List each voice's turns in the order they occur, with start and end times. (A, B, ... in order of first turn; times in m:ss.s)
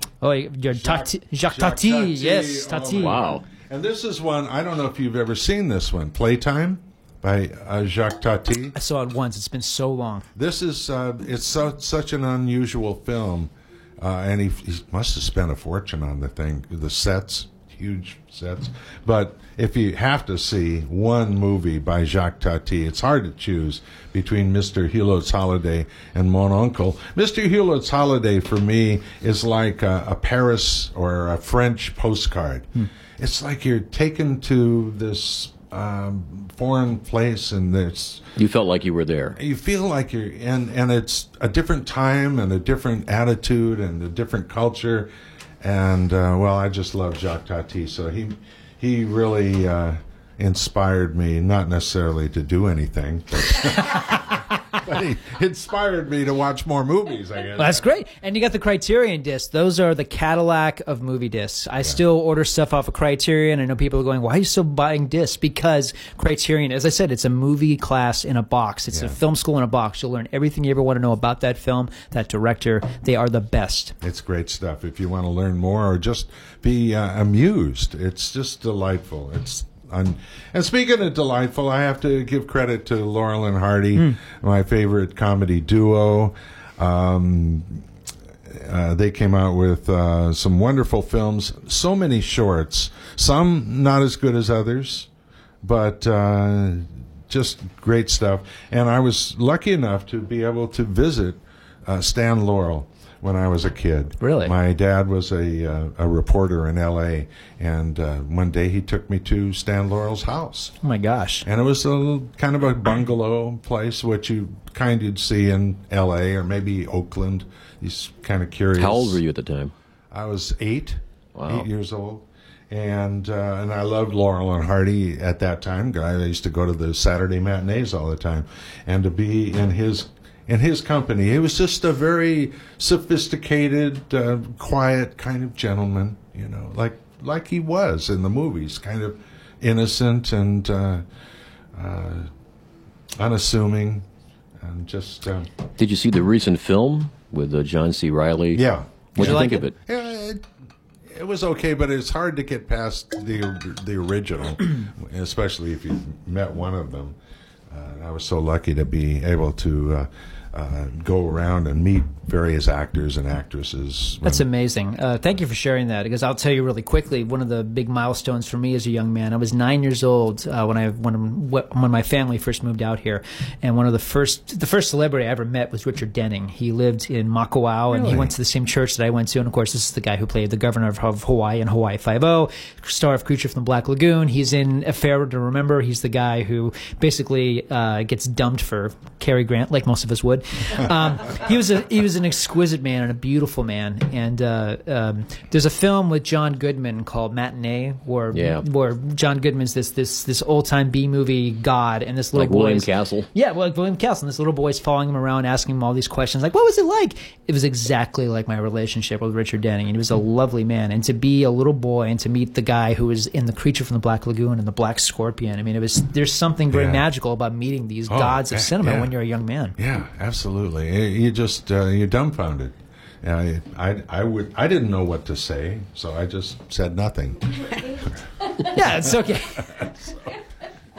0:00.2-0:03.3 A
0:00.7-0:08.8 B
0:03.0-0:03.4 C
0:08.8-0:10.2 A
0:10.4-0:38.3 B
0:38.4-0:39.4 C
0:39.4-0:45.1 B
0:45.6-0:57.9 B
0:57.6-1:14.0 A
1:08.9-1:09.2 B
1:14.0-1:27.8 B
1:28.5-1:35.1 B
1:35.6-1:50.7 B
1:44.2-1:44.5 A
1:50.8-1:51.5 A
1:51.4-1:59.2 B
1:58.8-1:59.7 C
2:00.1-2:21.0 B
2:01.4-2:01.7 C
2:21.8-2:22.3 B
2:23.2-2:24.0 B
2:24.6-2:25.5 B
2:25.8-2:29.8 C
2:28.5-2:30.4 B
2:29.2-2:29.6 A
2:31.1-2:37.2 B
2:37.7-2:44.4 B
2:44.2-3:39.8 A
2:57.9-2:58.3 B
3:18.3-3:18.6 C
3:22.4-3:23.3 C
3:36.7-3:37.1 B
3:38.1-3:39.1 B
3:39.8-3:47.8 B
3:48.6-3:49.8 A
3:49.8-3:50.1 B